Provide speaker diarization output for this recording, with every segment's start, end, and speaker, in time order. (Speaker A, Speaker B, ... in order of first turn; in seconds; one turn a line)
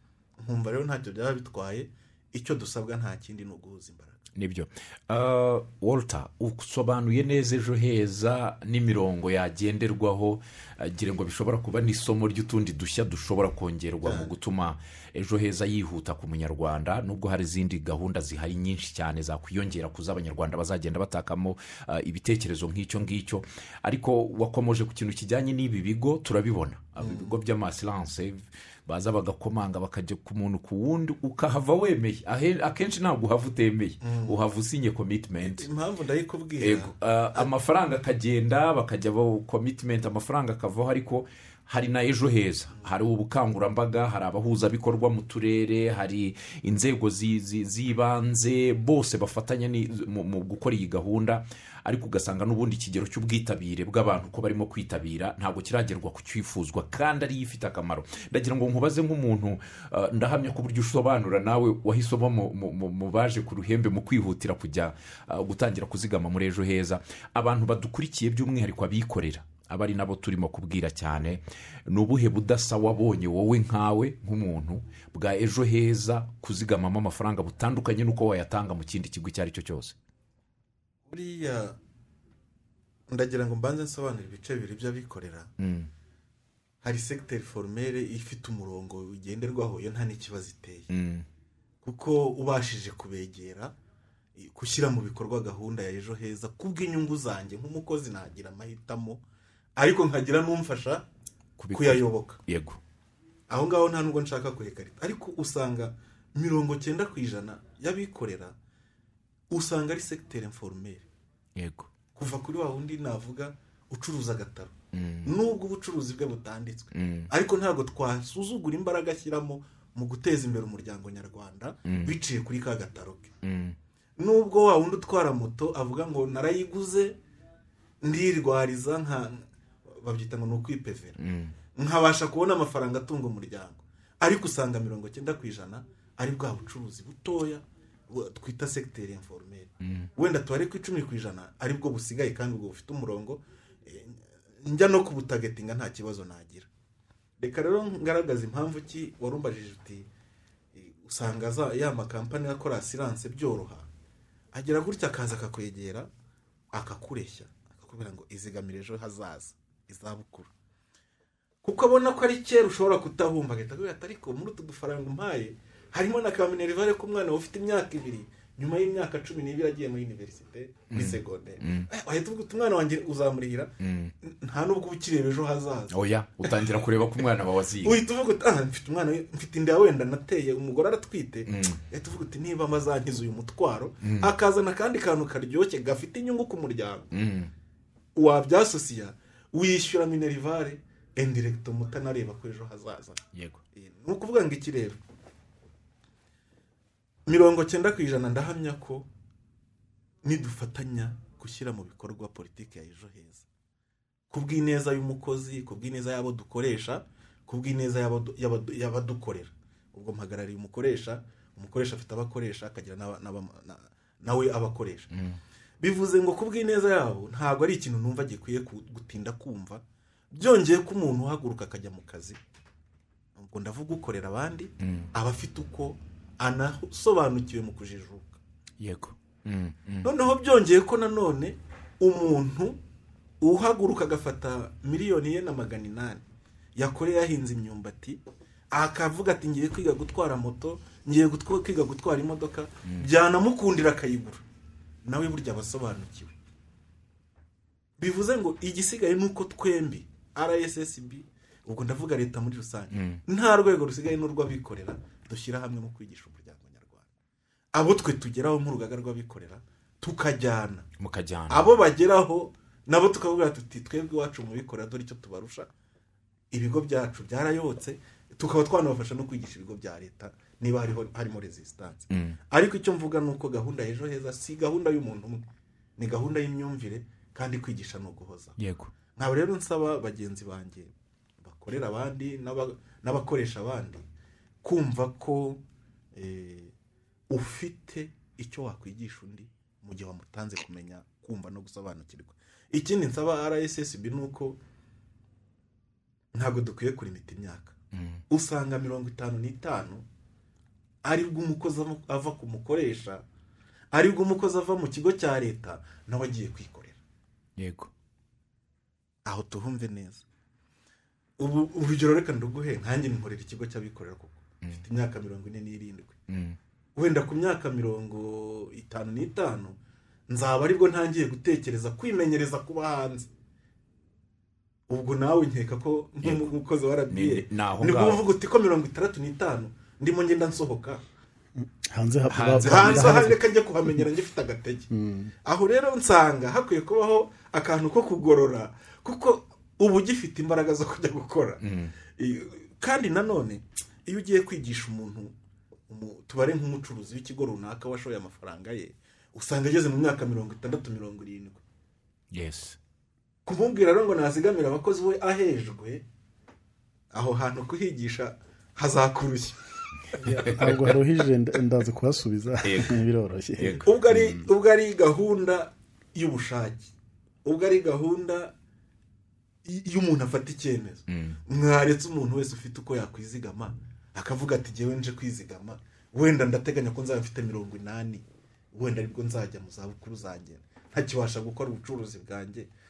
Speaker A: 0.4-4.2
Speaker B: 4.3-35.7
Speaker A: 14.0-14.3
Speaker A: 27.0-27.4
Speaker A: 34.0-34.4
Speaker A: 35.4-37.5
Speaker B: 36.6-80.0
Speaker A: 81.1-81.8
Speaker A: 83.1-85.5
Speaker B: 85.6-85.9
Speaker A: 86.8-90.9
Speaker B: 90.9-91.2
Speaker A: 91.8-93.7
Speaker A: 94.3-99.2
Speaker A: 99.8-101.0
Speaker B: 101.6-102.8
Speaker A: 101.7-102.4
Speaker A: 103.5-108.5
Speaker A: 109.5-111.0
Speaker B: 111.5-111.9
Speaker A: 112.1-114.7
Speaker B: 114.9-115.3
Speaker A: 115.2-123.3
Speaker B: 116.9-117.3
Speaker B: 121.8-122.1
Speaker B: 123.4-123.8
Speaker A: 124.2-127.2
Speaker A: 128.0-131.2
Speaker B: 131.2-131.5
Speaker A: 131.8-146.7
Speaker B: 139.8-140.1
Speaker A: 147.4-150.1
Speaker A: 150.7-153.9
Speaker A: 154.5-156.1
Speaker A: 156.7-160.5
Speaker A: 161.6-175.9
Speaker B: 170.9-171.9
Speaker B: 173.8-174.1
Speaker B: 175.9-178.0
Speaker A: 176.4-176.7
Speaker A: 177.8-187.1
Speaker B: 181.5-181.8
Speaker B: 184.0-184.3
Speaker B: 187.1-187.5
Speaker A: 188.2-193.2
Speaker B: 193.3-193.6
Speaker A: 193.7-195.0
Speaker A: 197.3-199.1
Speaker A: 200.2-203.4
Speaker A: 204.3-215.1
Speaker B: 215.1-215.4
Speaker A: 215.8-222.4
Speaker A: 223.3-228.4
Speaker B: 224.8-225.1
Speaker B: 228.8-230.1
Speaker A: 230.0-232.8
Speaker A: 233.4-236.2
Speaker A: 236.8-238.2
Speaker A: 238.7-244.4
Speaker A: 245.0-246.3
Speaker A: 248.0-257.1
Speaker B: 252.9-253.2
Speaker A: 257.7-260.9
Speaker B: 261.0-261.7
Speaker A: 261.5-265.7
Speaker A: 266.5-275.4
Speaker B: 272.1-272.4
Speaker A: 276.0-278.6
Speaker B: 278.6-278.9
Speaker A: 279.1-280.9
Speaker A: 281.4-284.1
Speaker A: 284.6-285.6
Speaker A: 286.1-286.7
Speaker A: 287.3-294.6
Speaker A: 296.3-297.8
Speaker B: 297.9-298.2
Speaker A: 298.3-300.0
Speaker A: 301.0-303.2
Speaker A: 303.9-307.0
Speaker B: 307.6-307.9
Speaker A: 309.2-310.2
Speaker A: 311.4-316.2
Speaker B: 316.3-316.6
Speaker A: 316.9-319.8
Speaker A: 320.3-323.3
Speaker A: 324.9-331.0
Speaker B: 326.2-326.5
Speaker B: 327.1-328.2
Speaker C: 331.6-333.4
Speaker B: 332.3-333.3
Speaker A: 332.6-334.9
Speaker C: 334.9-335.3
Speaker A: 335.4-341.6
Speaker B: 341.6-341.9
Speaker A: 342.1-345.3
Speaker A: 345.9-351.6
Speaker B: 352.3-352.8
Speaker A: 353.4-356.0
Speaker A: 357.1-359.6
Speaker C: 360.2-363.8
Speaker B: 360.2-361.0
Speaker B: 362.6-363.0
Speaker B: 363.6-364.3
Speaker A: 363.8-366.9
Speaker A: 367.4-368.5
Speaker A: 369.6-382.7
Speaker B: 371.1-371.4